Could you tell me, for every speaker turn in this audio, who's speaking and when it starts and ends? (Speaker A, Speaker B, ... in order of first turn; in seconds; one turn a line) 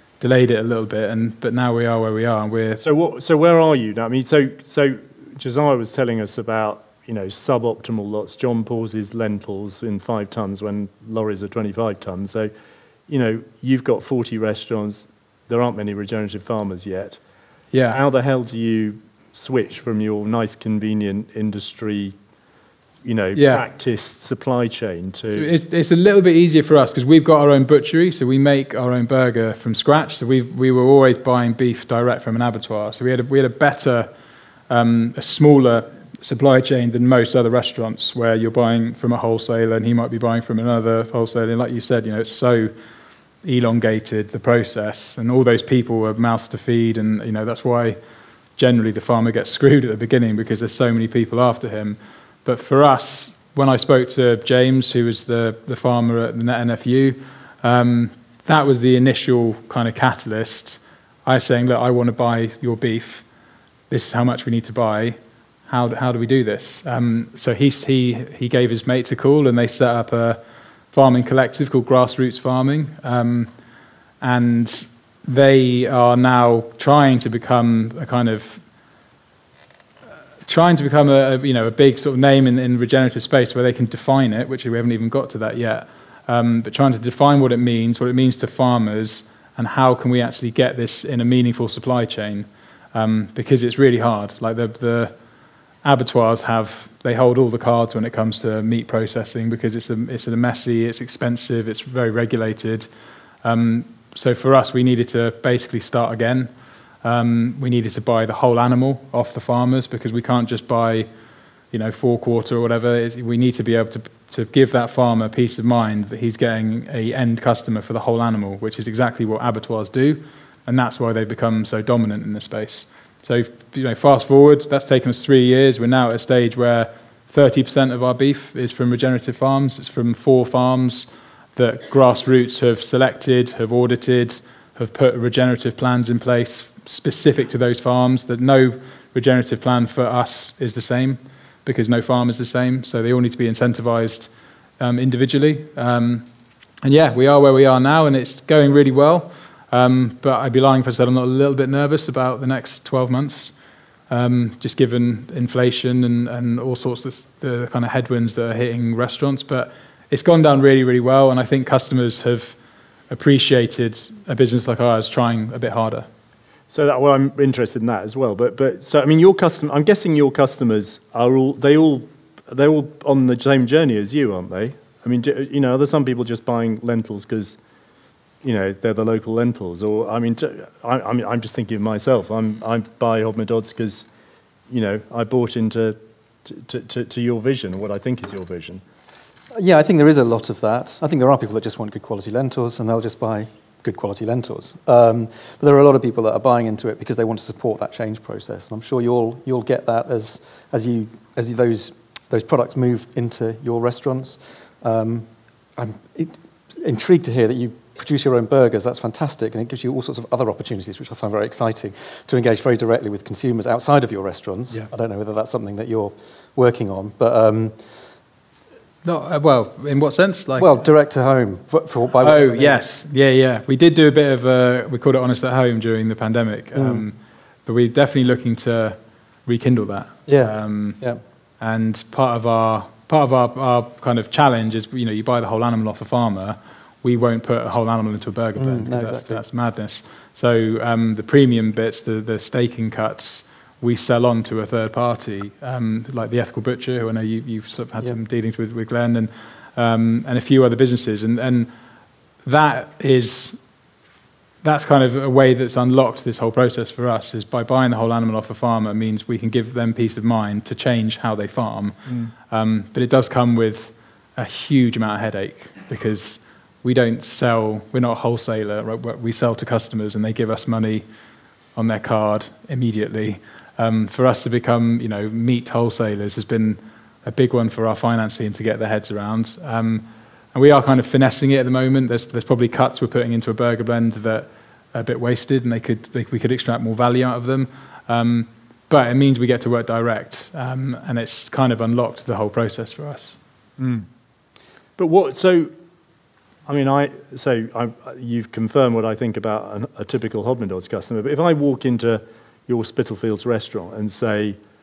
Speaker A: 0.2-2.8
Speaker B: 2.8-12.5
Speaker B: 13.1-17.2
Speaker A: 17.7-18.0
Speaker B: 17.9-22.1
Speaker B: 23.0-25.5
Speaker A: 23.3-23.6
Speaker A: 25.3-34.1
Speaker A: 34.7-42.7
Speaker A: 43.4-48.0
Speaker A: 48.6-63.2
Speaker A: 63.9-65.2
Speaker A: 65.7-70.4
Speaker A: 70.9-73.5
Speaker A: 74.2-78.6
Speaker A: 80.5-95.1
Speaker A: 95.8-102.9
Speaker A: 103.4-106.5
Speaker A: 107.0-111.1
Speaker A: 111.7-144.3
Speaker A: 144.8-146.2
Speaker A: 146.8-153.5
Speaker A: 154.1-162.6
Speaker A: 163.1-166.1
Speaker B: 166.7-177.6
Speaker B: 178.4-184.1
Speaker B: 184.7-188.8
Speaker C: 189.5-217.8
Speaker A: 219.0-220.8
Speaker C: 220.6-222.8
Speaker A: 222.2-231.0
Speaker C: 226.7-227.0
Speaker C: 230.3-231.2
Speaker A: 231.6-251.7
Speaker C: 238.6-239.4
Speaker A: 252.4-253.6
Speaker A: 254.6-271.0
Speaker A: 271.8-293.4
Speaker B: 293.8-294.1
Speaker B: 295.0-295.7
Speaker B: 296.7-304.6